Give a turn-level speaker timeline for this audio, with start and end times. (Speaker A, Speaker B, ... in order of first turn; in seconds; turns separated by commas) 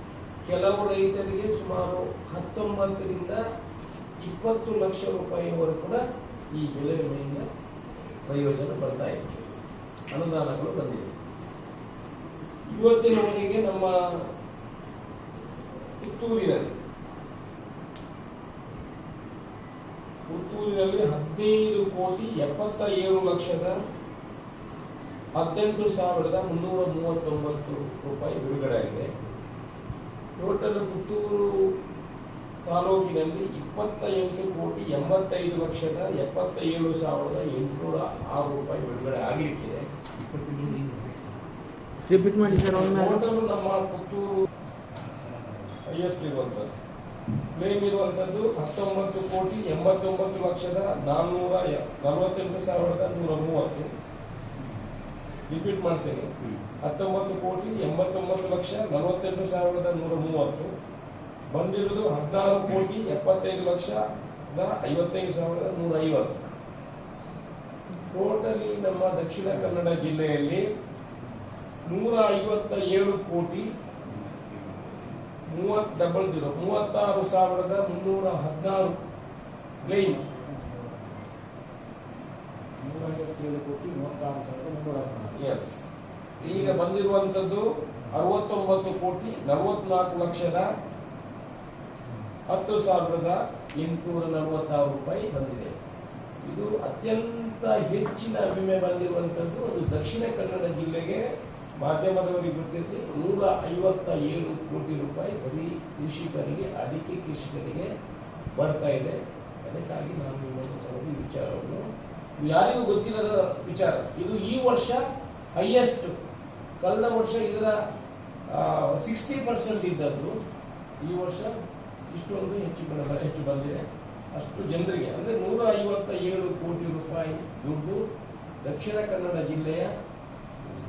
Speaker A: 0.4-3.4, Speaker A: 4.2-6.0, Speaker A: 6.5-7.4, Speaker A: 8.2-9.4, Speaker A: 10.1-11.1, Speaker A: 12.7-13.9, Speaker A: 16.0-16.7, Speaker A: 20.3-23.7, Speaker A: 25.4-29.1, Speaker A: 30.4-31.7, Speaker A: 32.6-39.9, Speaker B: 40.2-41.4, Speaker B: 42.1-43.2, Speaker A: 42.6-44.3, Speaker B: 45.1-45.7, Speaker A: 45.9-46.7, Speaker A: 47.5-53.9, Speaker A: 55.5-60.7, Speaker A: 61.5-66.5, Speaker A: 68.1-70.6, Speaker A: 71.8-73.7, Speaker A: 75.5-79.0, Speaker A: 79.8-80.2, Speaker B: 79.8-81.2, Speaker B: 82.8-85.3, Speaker A: 85.3-85.7, Speaker A: 86.4-90.7, Speaker B: 86.4-86.8, Speaker A: 92.5-95.8, Speaker A: 96.4-101.2, Speaker A: 101.8-107.9, Speaker A: 108.5-111.8, Speaker A: 112.4-115.0, Speaker A: 115.5-116.1, Speaker A: 116.8-117.8, Speaker A: 118.5-120.3, Speaker A: 121.0-121.5, Speaker A: 122.1-128.0, Speaker A: 128.6-129.9